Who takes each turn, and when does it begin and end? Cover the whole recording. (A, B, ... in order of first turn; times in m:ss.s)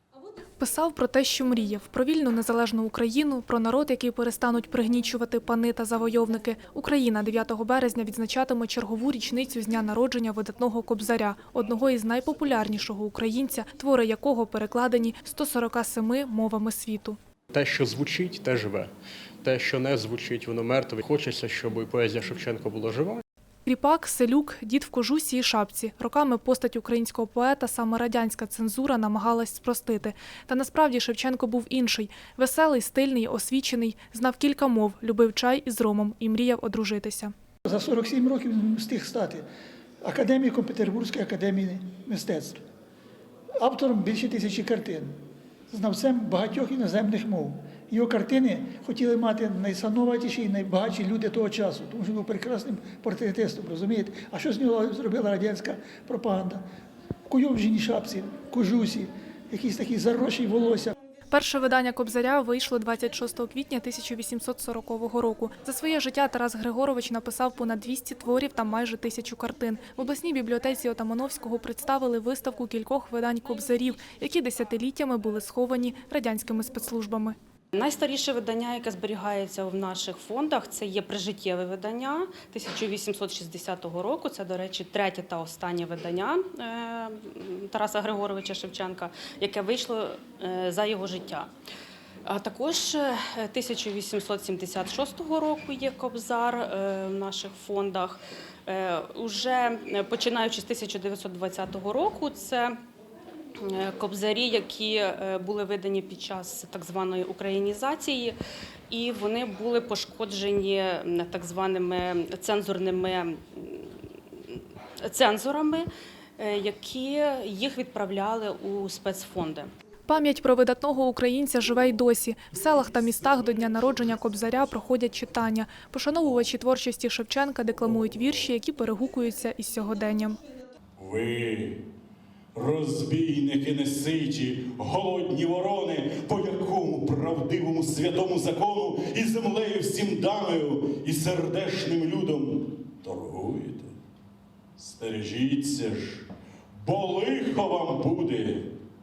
0:00.6-0:17.2 A
0:17.5-0:18.9 B
0:19.4-0:23.2 B
0:23.6-0:37.3 A
0:37.6-0:39.4 C
0:40.0-0:42.6 C
0:43.6-0:45.1 C
0:45.7-0:56.6 C
0:57.3-1:00.9 C
1:01.3-1:17.4 A
1:17.7-1:31.5 D
1:32.2-1:42.8 D
1:43.6-1:48.4 D
1:48.9-1:54.0 D
1:54.5-1:55.8 D
1:56.4-1:59.7 D
2:00.1-2:10.4 A
2:11.0-2:11.8 E
2:12.5-2:23.9 E
2:24.8-2:28.7 E